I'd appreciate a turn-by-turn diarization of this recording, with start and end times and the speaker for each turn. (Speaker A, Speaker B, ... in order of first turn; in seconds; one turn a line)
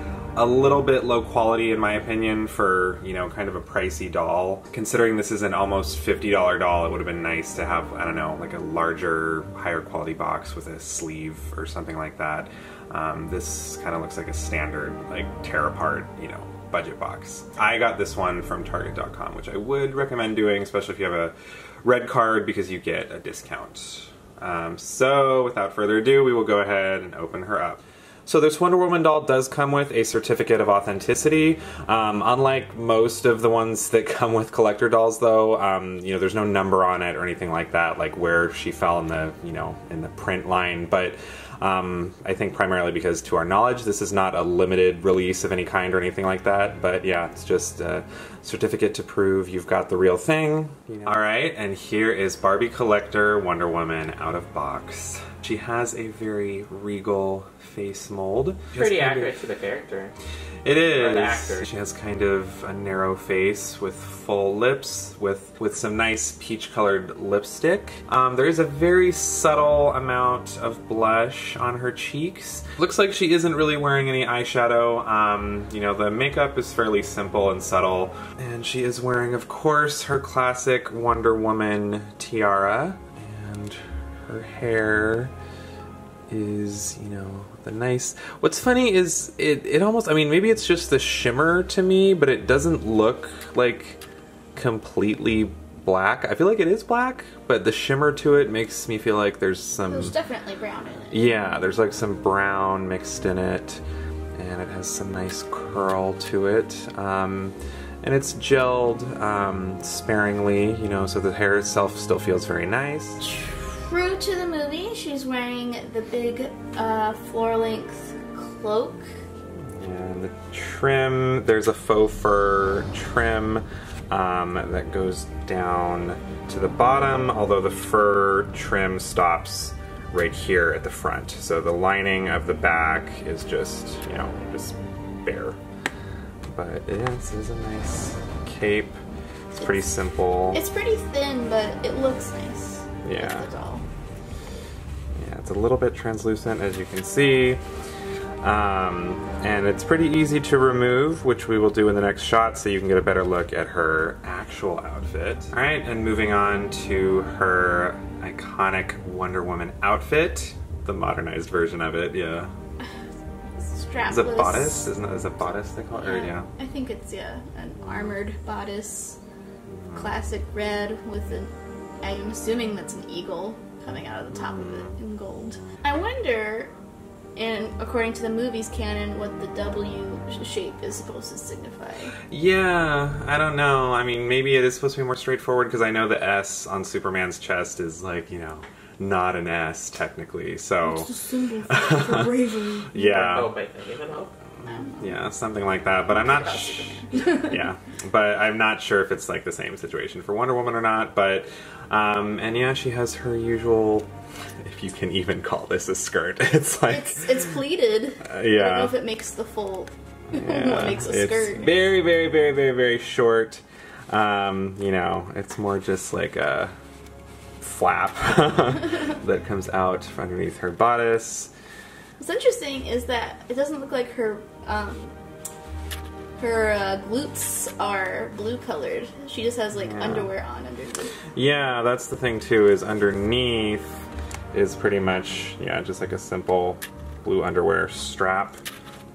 Speaker A: 0.4-59.4
Speaker B: 58.7-60.1
Speaker A: 60.6-85.3
Speaker B: 60.9-61.7
Speaker A: 86.3-94.0
Speaker A: 94.5-100.2
Speaker C: 99.9-101.4
Speaker A: 101.1-103.8
Speaker A: 104.4-113.2
Speaker C: 113.2-119.0
Speaker A: 119.8-135.6
Speaker A: 136.5-139.0
Speaker A: 139.5-140.6
Speaker C: 139.6-139.9
Speaker C: 140.5-143.8
Speaker A: 143.0-143.5
Speaker A: 145.2-147.6
Speaker A: 148.4-162.5
Speaker C: 163.6-164.9
Speaker A: 164.1-166.5
Speaker C: 165.9-169.2
Speaker A: 167.8-168.2
Speaker A: 169.7-170.1
Speaker C: 169.9-176.7
Speaker A: 174.3-175.0
Speaker C: 177.4-182.2
Speaker A: 182.3-191.1
Speaker C: 190.8-193.2
Speaker A: 191.7-193.6
Speaker B: 193.0-194.3
Speaker A: 194.6-204.1
Speaker C: 194.7-195.1
Speaker C: 196.3-197.6
Speaker A: 204.6-207.6
Speaker C: 206.9-211.8
Speaker A: 208.2-209.0
Speaker A: 210.3-216.7
Speaker A: 217.6-221.5
Speaker C: 222.2-225.2
Speaker C: 226.4-231.2
Speaker A: 229.7-230.3
Speaker A: 231.3-238.6